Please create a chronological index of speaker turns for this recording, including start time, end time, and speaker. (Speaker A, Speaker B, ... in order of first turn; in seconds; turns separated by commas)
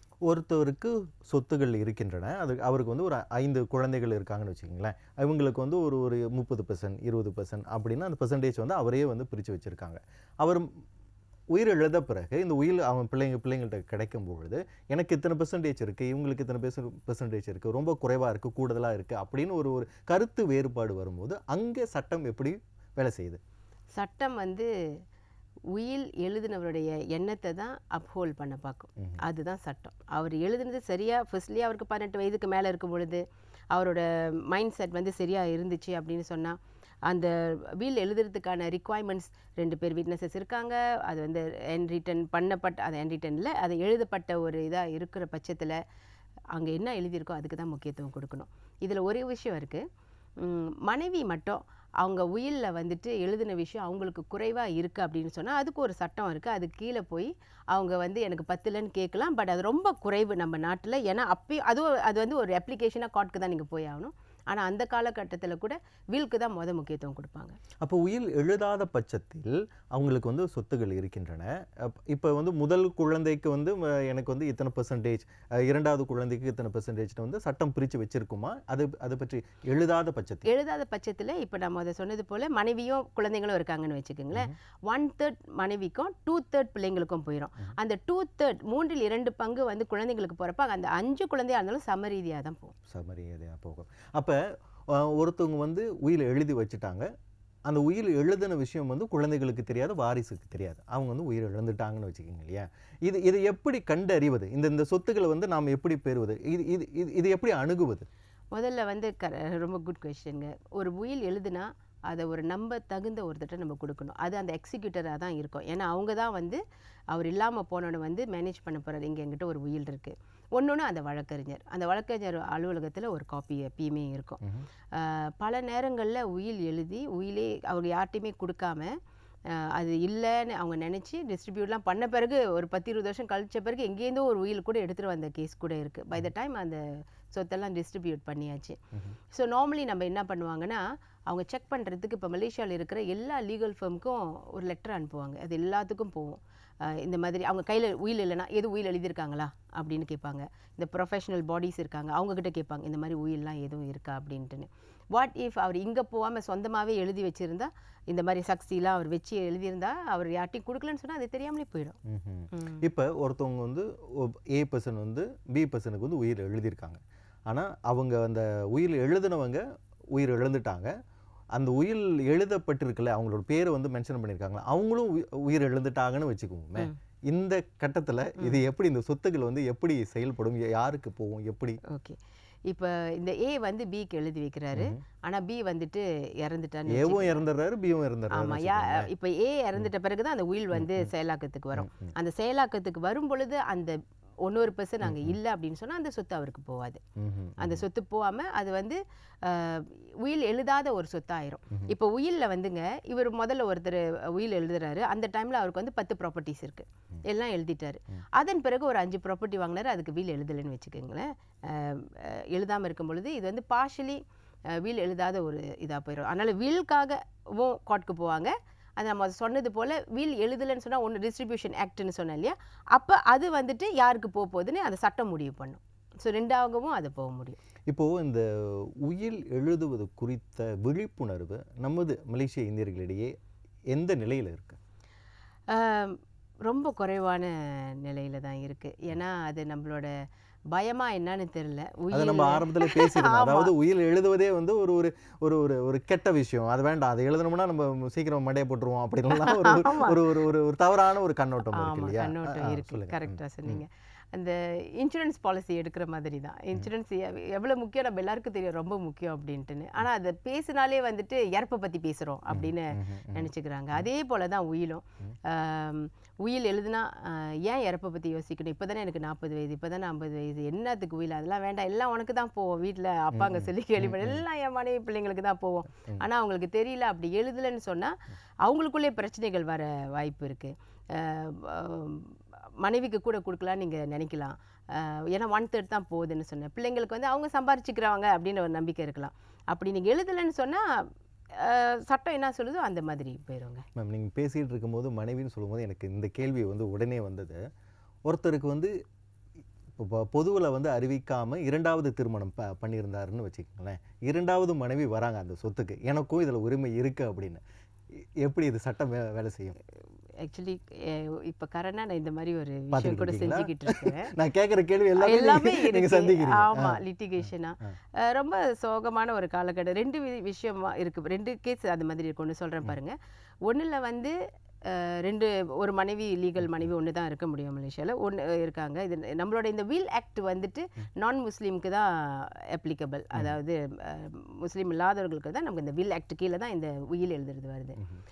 Speaker A: 0.2-10.7, Speaker A: 11.5-23.4, Speaker B: 23.9-25.0, Speaker B: 25.7-45.8, Speaker B: 46.5-49.9, Speaker B: 50.4-67.6, Speaker A: 67.8-80.5, Speaker B: 80.4-92.8, Speaker A: 92.9-97.1, Speaker A: 97.7-108.1, Speaker B: 108.5-129.0, Speaker A: 124.4-124.7, Speaker B: 129.5-162.0, Speaker A: 162.1-170.9, Speaker B: 162.5-162.8, Speaker A: 171.5-181.8, Speaker B: 181.8-187.4, Speaker A: 184.7-185.0, Speaker A: 186.9-189.1, Speaker B: 188.3-197.0, Speaker A: 190.7-191.1, Speaker A: 191.8-192.1, Speaker A: 195.0-195.3, Speaker A: 197.2-197.8, Speaker B: 197.6-227.6, Speaker A: 227.9-233.3, Speaker A: 233.9-234.8, Speaker B: 235.7-243.7, Speaker A: 242.1-253.8, Speaker B: 249.3-250.3, Speaker B: 251.7-293.9, Speaker A: 262.5-264.1, Speaker A: 273.3-274.4, Speaker A: 293.9-297.6, Speaker A: 298.2-298.9, Speaker A: 299.9-307.6, Speaker A: 308.1-309.8, Speaker B: 310.4-314.3, Speaker A: 312.9-317.9, Speaker B: 315.2-338.0